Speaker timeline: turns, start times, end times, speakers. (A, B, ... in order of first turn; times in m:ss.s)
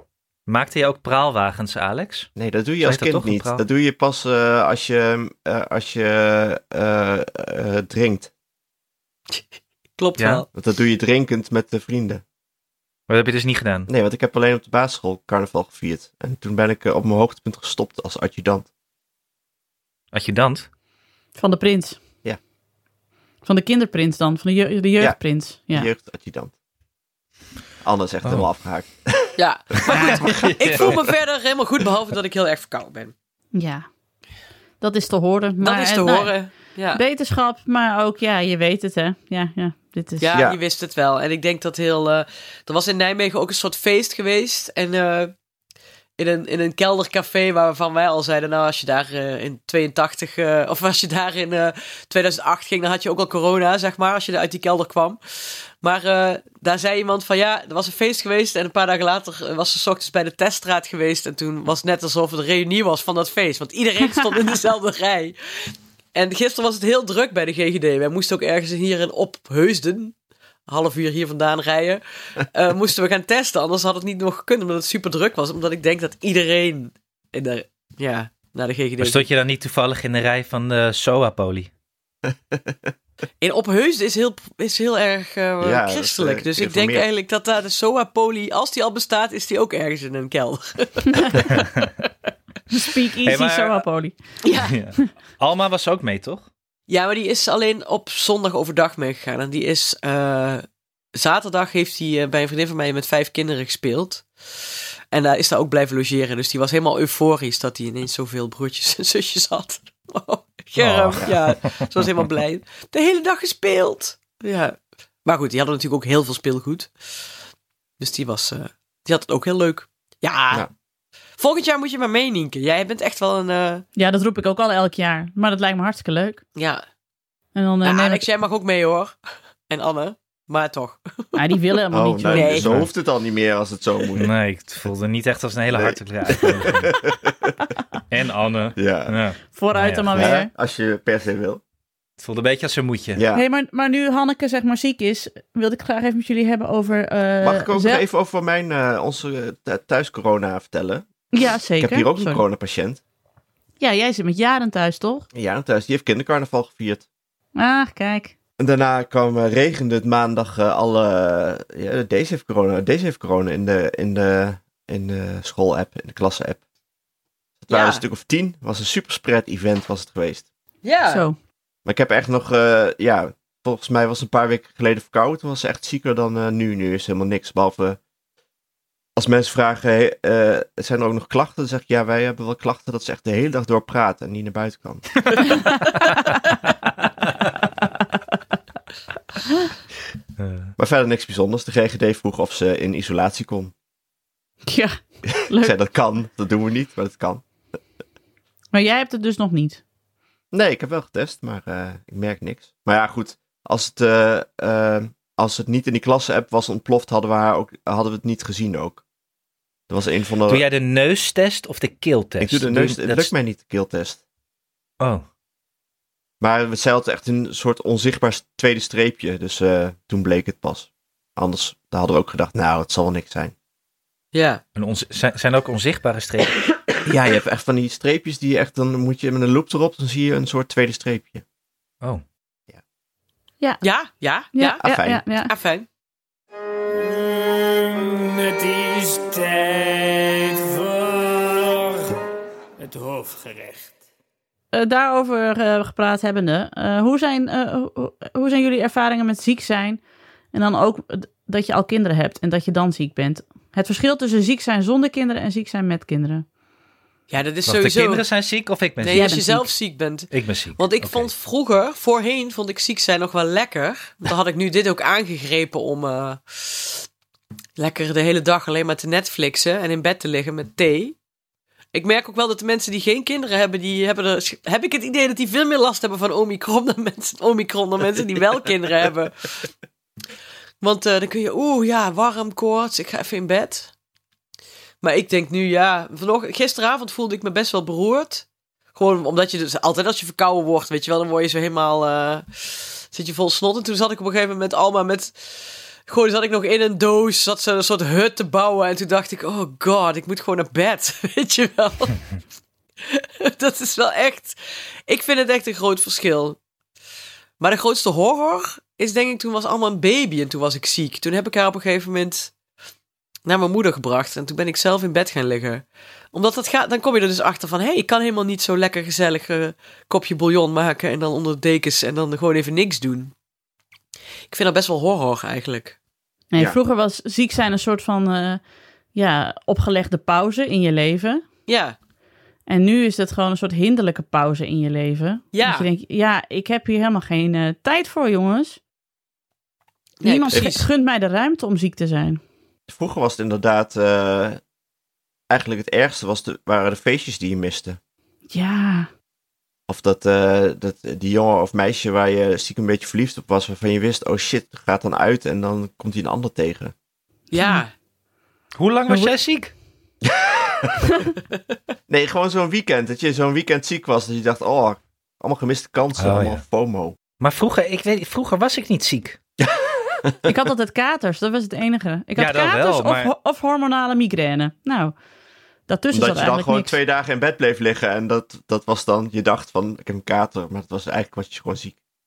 0:00.5-0:02.3 A
0:02.4-0:08.3 B
0:02.8-0:03.6 A
0:10.0-0:10.5 C
0:10.2-0:10.4 A
0:10.5-0:12.2 B
0:13.1-0:13.9 A
0:13.9-0:18.7 B
0:20.1-0:20.7 A
0:21.4-0:22.0 D
0:23.4-0:25.9 D
0:25.7-0:26.5 B
0:27.8-0:29.4 B
0:29.4-0:33.1 C
0:29.9-0:30.2 D
0:30.0-0:31.0 B
0:30.2-0:30.9 A
0:33.5-0:33.9 D
0:34.8-0:40.4 D
0:35.6-0:37.0 C
0:40.2-0:45.3 C
0:46.2-1:10.1 C
1:10.7-1:19.2 C
1:19.0-1:21.7 A
1:22.3-1:22.9 B
1:23.4-1:31.4 C
1:25.6-1:27.0 B
1:31.5-1:31.8 A
1:32.7-1:34.2 D
1:33.2-1:33.8 A
1:34.4-1:34.8 C
1:34.7-1:36.5 A
1:36.9-1:40.6 C
1:41.1-1:56.9 C
1:50.8-1:51.8 A
1:58.0-2:00.7 C
2:01.4-2:03.8 C
2:04.0-2:06.4 D
2:06.6-2:06.8 C
2:07.5-2:08.2 D
2:07.8-2:09.2 C
2:09.7-2:11.4 C
2:11.3-2:12.6 D
2:11.9-2:14.3 B
2:12.2-2:12.8 C
2:12.6-2:12.9 A
2:14.2-2:17.0 A
2:15.7-2:17.5 B
2:18.1-2:20.3 A
2:18.8-2:19.2 B
2:19.5-2:20.5 D
2:20.1-2:21.6 B
2:22.2-2:23.2 A
2:23.1-2:23.4 B
2:23.3-2:28.0 D
2:27.4-2:31.0 B
2:31.3-2:32.4 D
2:31.8-2:33.0 B
2:33.8-2:35.2 D
2:35.3-2:37.0 B
2:37.6-2:38.3 D
2:38.6-2:46.6 B
2:47.6-2:50.5 B
2:47.7-2:48.0 C
2:50.8-2:51.2 C
2:51.1-2:51.4 D
2:51.8-2:58.0 B
2:59.2-3:05.1 B
3:10.4-3:10.7 A
3:10.8-3:13.7 B
3:14.6-3:15.8 D
3:15.5-3:17.4 B
3:18.7-3:19.8 D
3:20.5-3:29.0 B
3:29.9-3:30.6 B
3:30.5-3:33.3 A
3:32.4-3:34.2 B
3:36.4-3:43.5 B
3:44.3-3:44.6 C
3:44.8-3:46.6 A
3:47.0-3:51.4 B
3:53.8-3:54.8 C
3:54.5-3:55.5 D
3:54.8-3:55.2 B
3:55.4-3:55.9 C
3:57.0-4:02.2 E
4:02.8-4:03.9 E
4:04.7-4:10.0 D
4:10.5-4:16.4 D
4:17.3-4:18.2 C
4:17.6-4:19.4 A
4:19.0-4:27.0 C
4:19.1-4:19.7 D
4:20.3-4:21.3 A
4:27.8-4:31.2 C
4:31.9-4:39.7 C
4:40.8-4:43.9 C
4:45.0-5:02.2 C
5:03.1-5:06.6 C
5:07.6-5:12.5 C
5:13.4-5:23.3 C
5:24.5-5:26.0 C
5:26.5-5:28.6 D
5:29.1-5:31.4 D
5:31.7-5:32.0 C
5:32.7-5:38.8 D
5:35.5-5:35.9 C
5:40.2-5:40.9 C
5:40.2-5:42.4 D
5:42.9-5:44.6 B
5:45.5-5:48.0 B
5:48.5-5:49.1 D
5:49.9-5:56.9 B
5:57.5-5:57.9 C
5:57.6-5:57.8 D
5:58.7-5:59.7 A
5:59.1-5:59.3 D
6:00.2-6:01.1 B
6:02.1-6:07.2 B
6:06.2-6:06.6 A
6:07.4-6:09.4 A
6:09.6-6:10.6 B
6:10.4-6:15.1 D
6:12.4-6:13.3 A
6:15.9-6:17.0 D
6:16.1-6:22.0 B